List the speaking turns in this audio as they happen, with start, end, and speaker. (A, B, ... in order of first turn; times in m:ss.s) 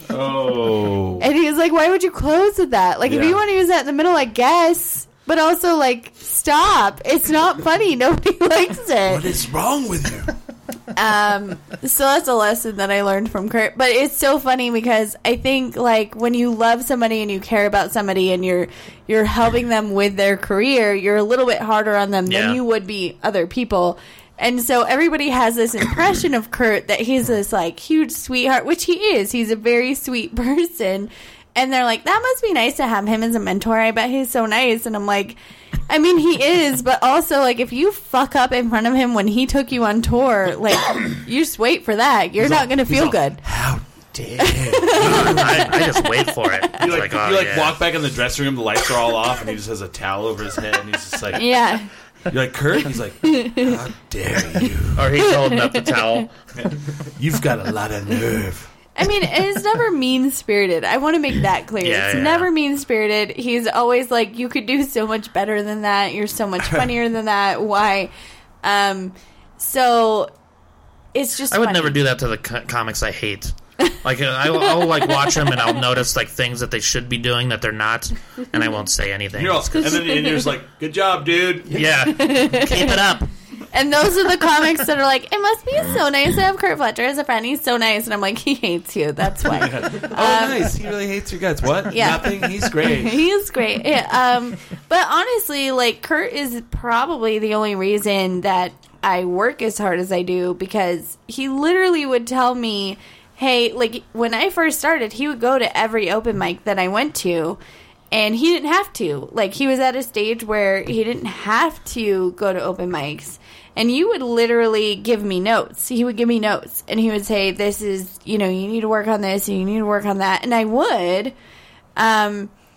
0:00.1-0:01.3 A
0:01.2-0:09.2 B
0:03.1-0:03.4 A
0:09.1-0:10.4 A
0:10.9-0:35.4 B
0:22.3-0:22.6 C
0:35.9-0:43.4 B
0:42.4-0:45.8 A
0:44.4-0:45.8 B
0:45.0-0:47.8 C
0:46.8-0:51.6 A
0:51.3-0:51.9 B
0:52.3-0:55.1 A
0:53.2-0:53.8 B
0:55.0-0:56.3 C
0:55.2-0:56.2 B
0:56.6-0:58.7 A
0:59.0-1:08.1 B
1:01.8-1:02.5 C
1:08.6-1:10.3 B
1:11.1-1:12.0 B
1:11.5-1:20.1 C
1:14.8-1:15.6 B
1:19.4-1:21.8 A
1:20.0-1:20.4 B
1:21.7-1:23.3 C
1:22.0-1:23.1 B
1:23.7-1:30.7 B
1:29.4-1:33.3 A
1:31.9-1:47.6 B
1:48.1-2:01.4 B
2:02.0-2:02.5 B